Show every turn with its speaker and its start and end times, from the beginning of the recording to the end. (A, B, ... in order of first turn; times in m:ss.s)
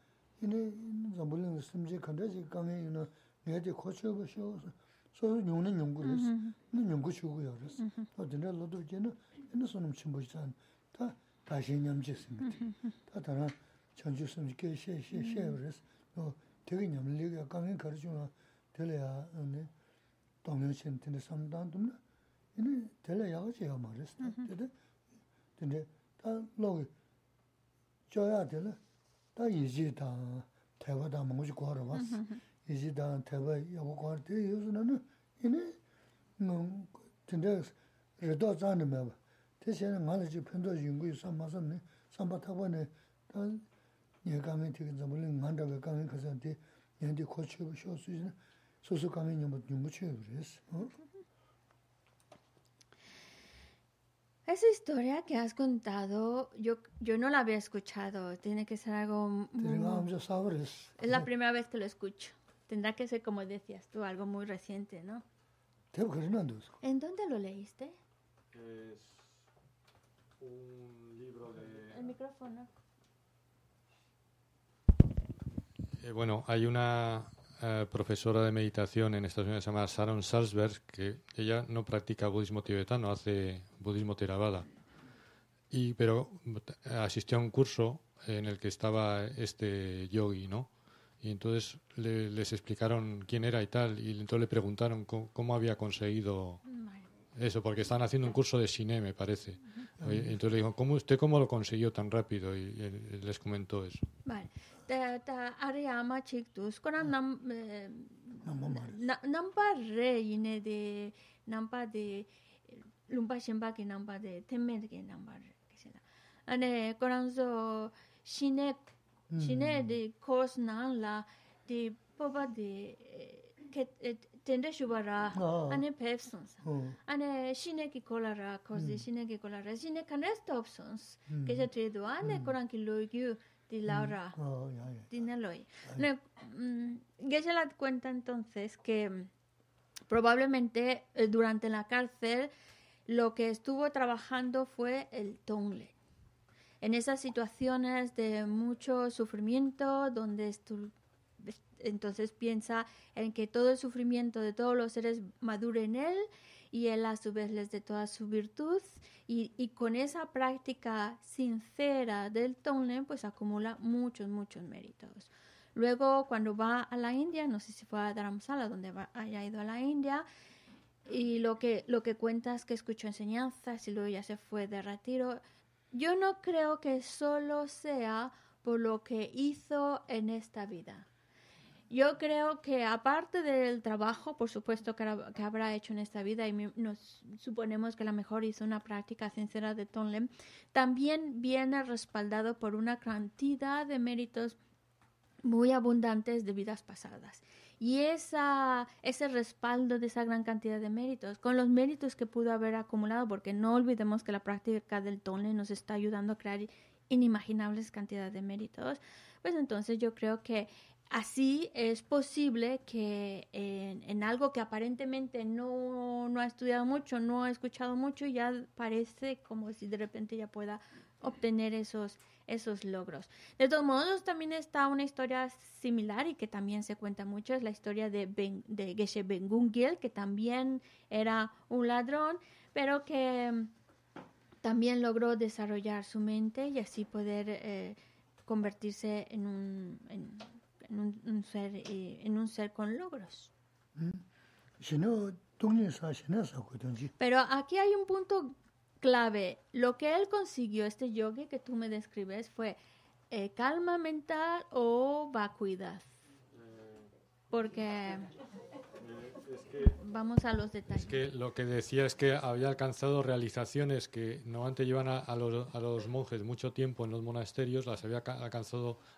0:00.4-0:19.7 A
0:06.0-0:06.6 B
0:15.2-0:15.5 B
0:20.4-0:22.0 A
0:22.6-0:24.7 A
0:24.2-0:24.5 B
0:25.6-0:26.9 A
0:28.1-0:28.8 A
0:29.4-0:35.8 A
0:32.0-0:32.3 B
0:36.4-0:43.7 A
0:44.2-0:50.9 A
0:54.5-1:00.1 B
0:59.6-1:01.3 A
1:01.0-1:05.2 B
1:05.9-1:06.8 A
1:06.8-1:08.0 B
1:08.5-1:09.4 C
1:10.4-1:12.0 C
1:11.9-1:12.7 B
1:16.0-1:24.7 C
1:25.7-1:30.7 C
1:31.2-1:36.6 C
1:36.7-1:37.1 B
1:37.4-1:44.0 C
1:40.0-1:40.3 A
1:44.2-2:14.4 B
1:48.4-1:49.0 A
1:59.3-2:00.0 A
2:05.3-2:05.8 A
2:06.6-2:07.0 A
2:08.8-2:09.0 A
2:11.3-2:11.7 A
2:12.2-2:12.5 A
2:13.9-2:15.1 A
2:15.1-2:19.3 B
2:20.1-2:22.5 B
2:23.1-2:26.0 B
2:26.8-2:50.3 B
2:51.1-2:55.4 B
2:55.9-3:01.1 B
3:01.9-3:14.6 B
3:15.4-3:53.7 B
3:54.6-4:03.5 B
4:04.0-4:04.2 A
4:04.8-4:07.1 A
4:07.2-4:12.8 B
4:13.3-4:16.1 B
4:16.5-4:17.1 C
4:17.5-4:18.3 B
4:19.0-4:20.0 C
4:20.0-4:21.2 B
4:20.9-4:29.0 C